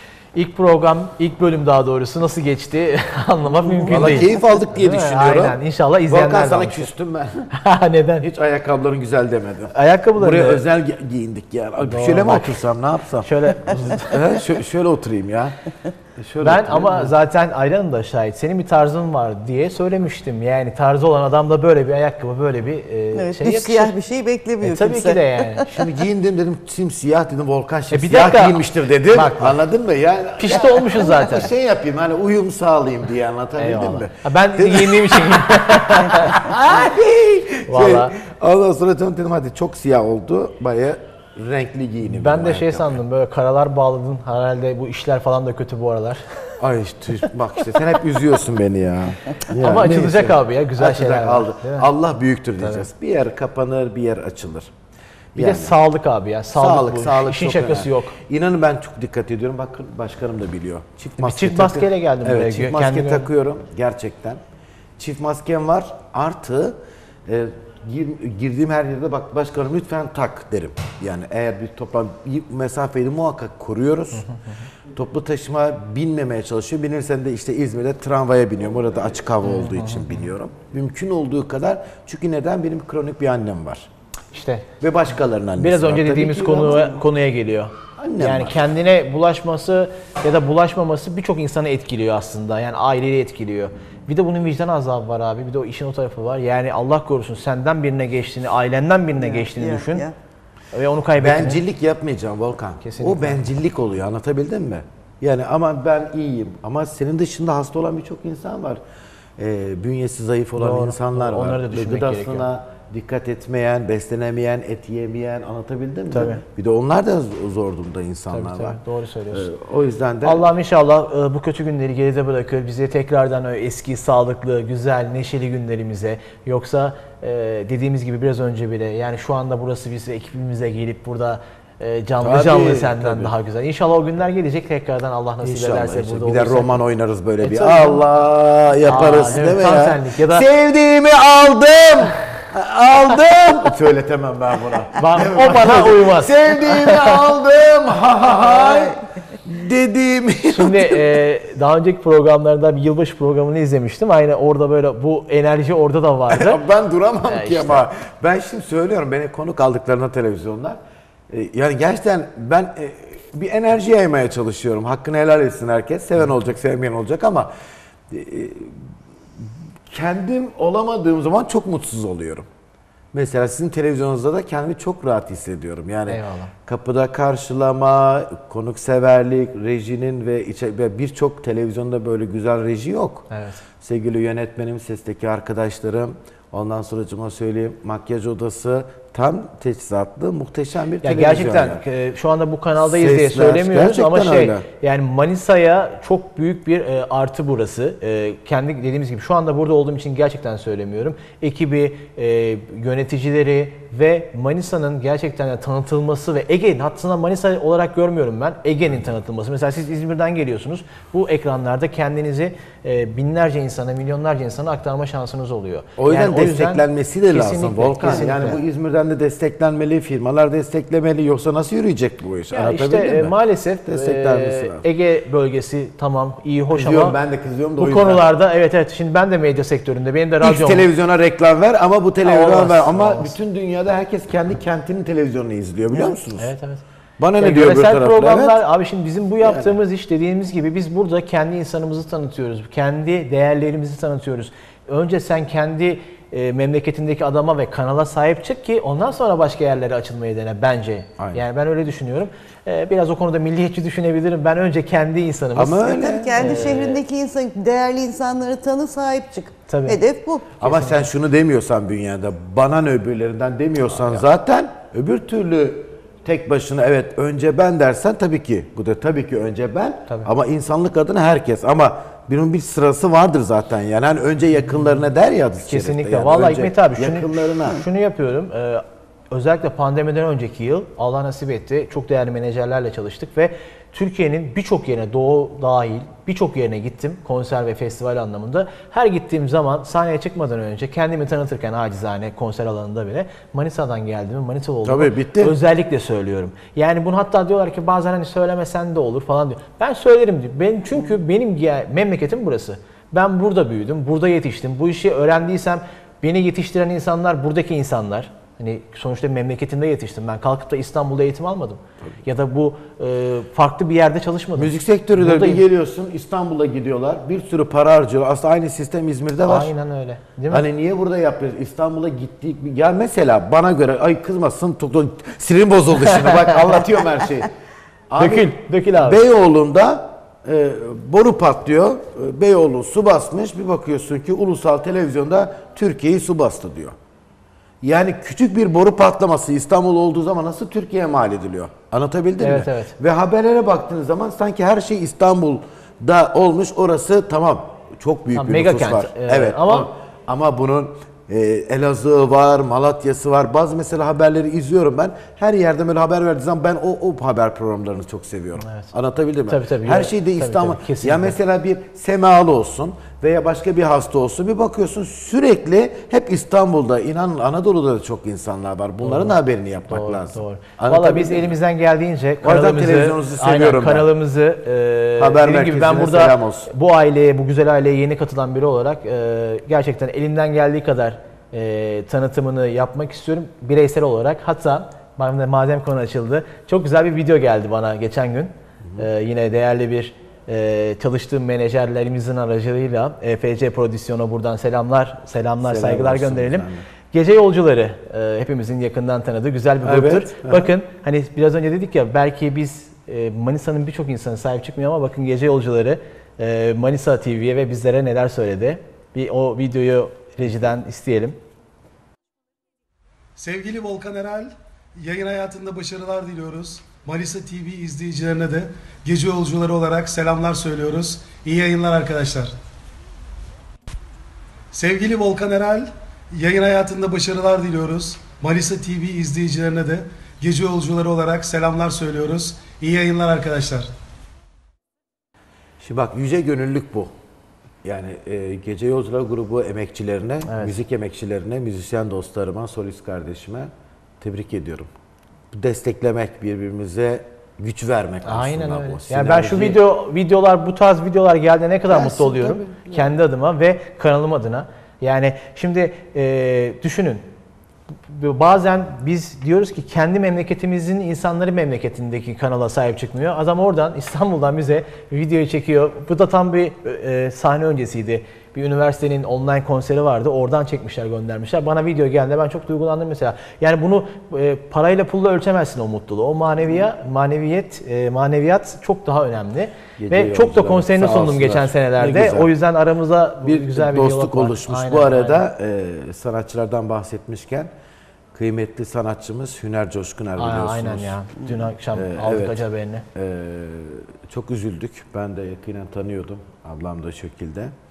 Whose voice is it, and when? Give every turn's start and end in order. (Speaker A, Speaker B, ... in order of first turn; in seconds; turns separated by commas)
Speaker A: 0.3-6.9, Speaker B: 3.9-5.6, Speaker B: 6.1-7.5, Speaker A: 7.5-8.3, Speaker B: 8.2-15.6, Speaker A: 9.7-10.6, Speaker A: 11.8-12.6, Speaker A: 13.2-14.1, Speaker B: 16.2-17.1, Speaker A: 16.4-23.9, Speaker C: 23.1-25.7, Speaker A: 24.6-25.7, Speaker B: 25.7-43.0, Speaker A: 27.9-29.6, Speaker A: 30.4-31.5, Speaker A: 33.6-36.5, Speaker A: 37.7-38.2, Speaker A: 42.0-46.2, Speaker B: 46.6-54.7, Speaker A: 49.5-51.9, Speaker A: 52.6-52.8, Speaker B: 55.3-55.8, Speaker A: 55.4-58.1, Speaker B: 56.5-64.4, Speaker A: 61.2-63.3, Speaker B: 65.0-74.3, Speaker B: 74.9-83.9, Speaker A: 79.5-80.2, Speaker A: 84.3-84.7, Speaker B: 84.8-86.9, Speaker A: 85.6-100.0, Speaker B: 88.0-88.7, Speaker C: 99.2-100.1, Speaker A: 100.7-101.6, Speaker B: 101.2-108.8, Speaker A: 102.8-103.4, Speaker B: 109.4-118.8, Speaker A: 110.6-112.5, Speaker A: 116.1-116.4, Speaker A: 118.3-119.5, Speaker B: 119.3-120.5, Speaker A: 120.2-136.8, Speaker B: 132.2-133.3, Speaker B: 135.4-151.2, Speaker A: 137.4-138.0, Speaker A: 138.8-140.4, Speaker A: 145.0-147.2, Speaker A: 150.5-156.6, Speaker B: 156.3-160.8, Speaker A: 157.2-157.9, Speaker B: 161.3-167.5, Speaker B: 168.1-168.8, Speaker B: 169.4-172.5, Speaker B: 173.1-183.2, Speaker A: 176.1-176.5, Speaker A: 183.3-183.6, Speaker B: 183.8-191.8, Speaker A: 191.0-218.6, Speaker B: 192.8-194.7, Speaker B: 216.0-223.3, Speaker A: 222.5-227.2, Speaker B: 223.8-224.8, Speaker B: 226.8-228.3, Speaker A: 227.8-230.9, Speaker B: 230.4-236.5, Speaker A: 232.2-233.3, Speaker A: 236.3-236.8, Speaker B: 237.2-238.6, Speaker A: 237.4-257.0, Speaker B: 239.4-239.7, Speaker B: 255.6-256.6, Speaker C: 255.8-260.5, Speaker A: 259.7-260.0, Speaker B: 260.6-277.8, Speaker A: 260.6-261.0, Speaker A: 275.6-315.6, Speaker B: 294.8-295.5, Speaker B: 314.6-319.7, Speaker A: 319.4-320.6, Speaker B: 320.5-327.5, Speaker B: 328.1-336.9, Speaker A: 328.2-329.2, Speaker B: 337.8-371.5, Speaker A: 342.4-342.9, Speaker A: 348.3-349.9, Speaker A: 358.6-358.9, Speaker A: 359.5-361.4, Speaker A: 369.0-369.4, Speaker A: 369.9-411.4, Speaker B: 372.4-374.1, Speaker B: 375.2-376.7, Speaker B: 395.6-396.8, Speaker B: 399.8-400.7, Speaker D: 413.4-422.5, Speaker D: 424.7-433.9, Speaker B: 435.8-437.1, Speaker B: 437.8-444.9, Speaker A: 440.5-440.8, Speaker B: 445.5-449.8, Speaker A: 448.2-457.2, Speaker B: 452.0-453.1, Speaker A: 458.1-485.4, Speaker B: 480.0-482.5, Speaker B: 483.4-487.7, Speaker B: 488.3-491.1, Speaker A: 490.4-493.0, Speaker B: 491.9-492.6, Speaker B: 493.1-497.7